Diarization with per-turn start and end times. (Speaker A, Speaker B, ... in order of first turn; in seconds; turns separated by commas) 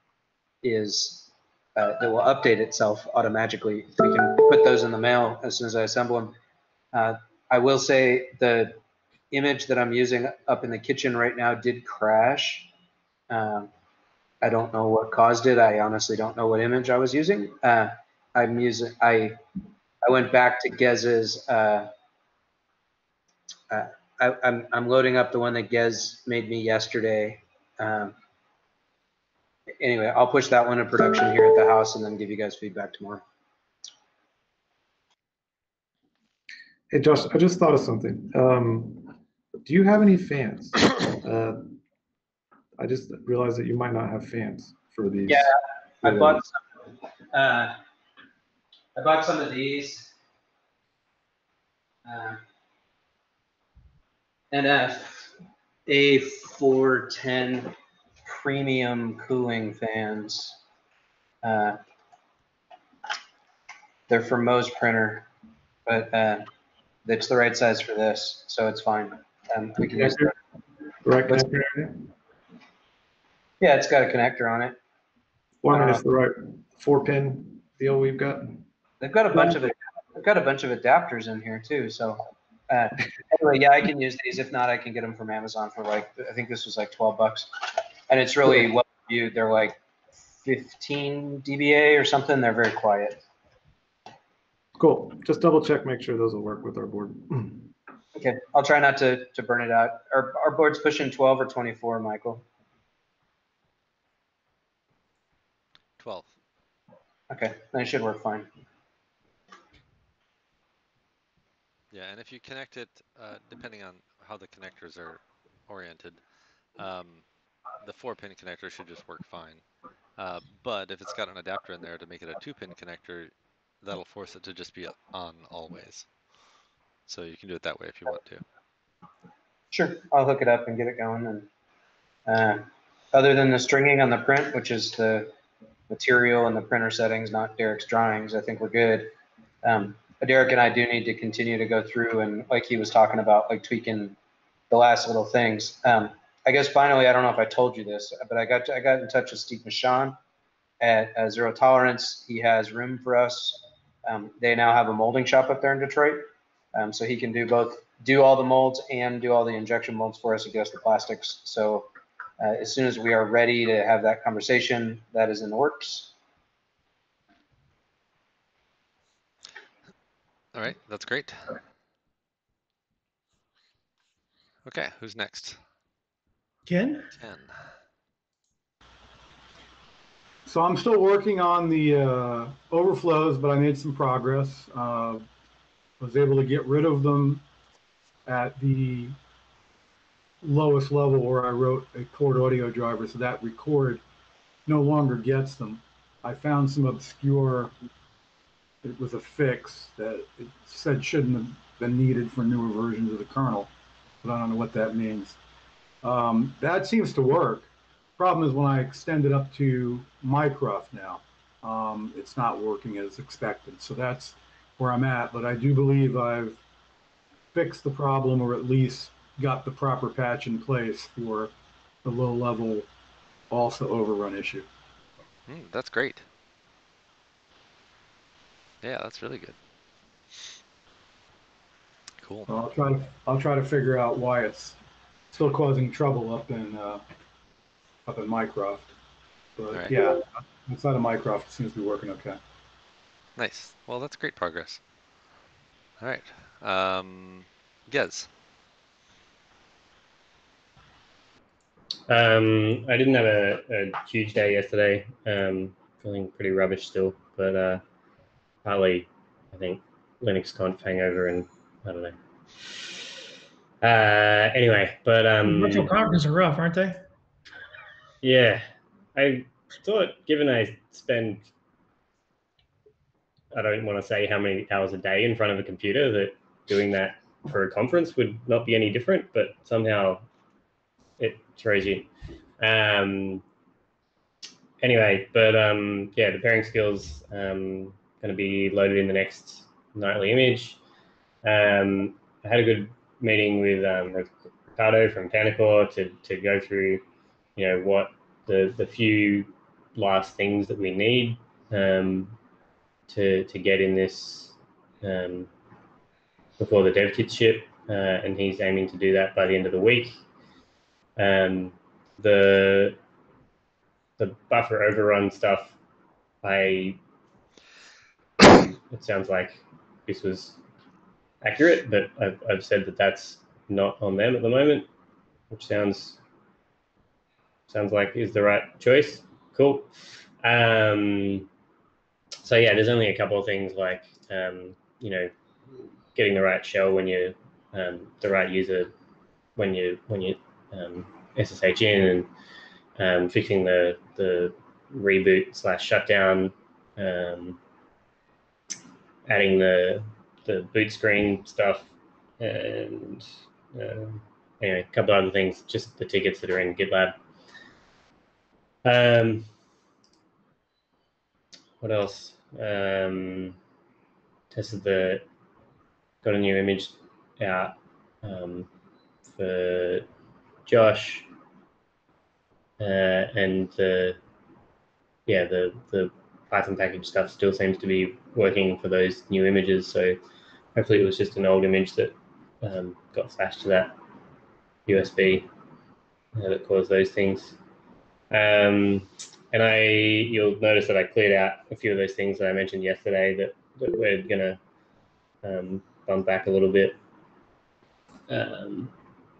Speaker A: 0.6-6.3, Speaker A: 6.9-8.8, Speaker A: 9.3-12.7, Speaker A: 13.3-13.7, Speaker A: 14.4-19.4, Speaker A: 20.0-21.9, Speaker A: 23.7-28.1, Speaker A: 29.8-33.2, Speaker B: 36.9-41.8, Speaker B: 42.8-45.5, Speaker A: 45.3-46.6, Speaker B: 46.0-46.4, Speaker A: 47.3-47.8, Speaker A: 48.9-50.1, Speaker A: 52.0-52.4, Speaker A: 54.5-55.3, Speaker A: 55.9-57.7, Speaker A: 58.2-60.6, Speaker A: 61.4-61.8, Speaker A: 64.1-65.3, Speaker A: 65.8-66.5, Speaker A: 67.0-70.3, Speaker B: 69.9-70.3, Speaker B: 71.0-72.1, Speaker A: 73.6-74.8, Speaker B: 75.6-78.6, Speaker A: 75.7-76.0, Speaker A: 79.0-87.5, Speaker B: 79.3-79.6, Speaker A: 88.1-89.8, Speaker A: 90.4-93.2, Speaker B: 94.8-97.7, Speaker A: 98.1-102.4, Speaker C: 106.0-106.3, Speaker A: 107.3-108.5, Speaker C: 111.9-116.2, Speaker C: 116.8-117.2, Speaker C: 117.8-119.6, Speaker C: 120.2-123.3, Speaker C: 123.8-126.1, Speaker C: 127.1-128.4, Speaker A: 129.7-131.5, Speaker A: 132.2-135.3, Speaker A: 135.9-144.2, Speaker A: 144.7-150.2, Speaker A: 150.8-166.1, Speaker C: 170.5-171.6, Speaker C: 174.6-175.6, Speaker D: 176.7-177.1, Speaker C: 177.2-177.5, Speaker E: 180.4-185.3, Speaker E: 186.0-187.4, Speaker E: 188.2-189.2, Speaker E: 190.4-194.0, Speaker E: 194.7-197.7, Speaker E: 198.8-203.7, Speaker E: 204.2-205.4, Speaker E: 206.0-216.6, Speaker E: 217.5-221.5, Speaker E: 222.0-222.9, Speaker E: 223.5-224.7, Speaker C: 225.5-226.2, Speaker C: 228.8-229.6, Speaker C: 232.2-232.5, Speaker E: 232.5-234.8, Speaker E: 235.3-237.0, Speaker E: 238.1-238.9, Speaker E: 239.6-242.4, Speaker C: 239.7-240.0, Speaker C: 243.3-244.8, Speaker C: 246.0-248.3, Speaker F: 252.1-257.8, Speaker F: 258.6-262.1, Speaker F: 263.8-265.9, Speaker D: 265.4-267.0, Speaker F: 268.2-271.5, Speaker F: 273.5-280.3, Speaker F: 281.2-282.1, Speaker F: 282.6-283.4, Speaker F: 284.8-290.8, Speaker F: 291.4-297.0, Speaker F: 297.6-302.4, Speaker F: 303.1-305.5, Speaker F: 306.6-310.2, Speaker F: 311.2-313.0, Speaker F: 314.2-315.8, Speaker F: 316.4-317.0, Speaker F: 318.4-320.6, Speaker F: 321.4-324.9, Speaker F: 325.5-326.2, Speaker F: 327.7-331.5, Speaker F: 332.4-335.3, Speaker F: 336.1-338.9, Speaker F: 339.6-342.3, Speaker F: 343.0-347.6, Speaker F: 349.3-357.1, Speaker F: 358.8-359.5, Speaker F: 361.8-363.6, Speaker F: 364.5-365.2, Speaker F: 366.2-368.7, Speaker F: 369.3-370.1, Speaker F: 370.6-371.3, Speaker F: 372.8-374.2, Speaker F: 375.2-380.2, Speaker F: 380.7-383.9, Speaker F: 384.9-385.5, Speaker F: 386.3-387.6, Speaker F: 388.3-394.6, Speaker F: 395.4-397.0, Speaker F: 398.3-398.9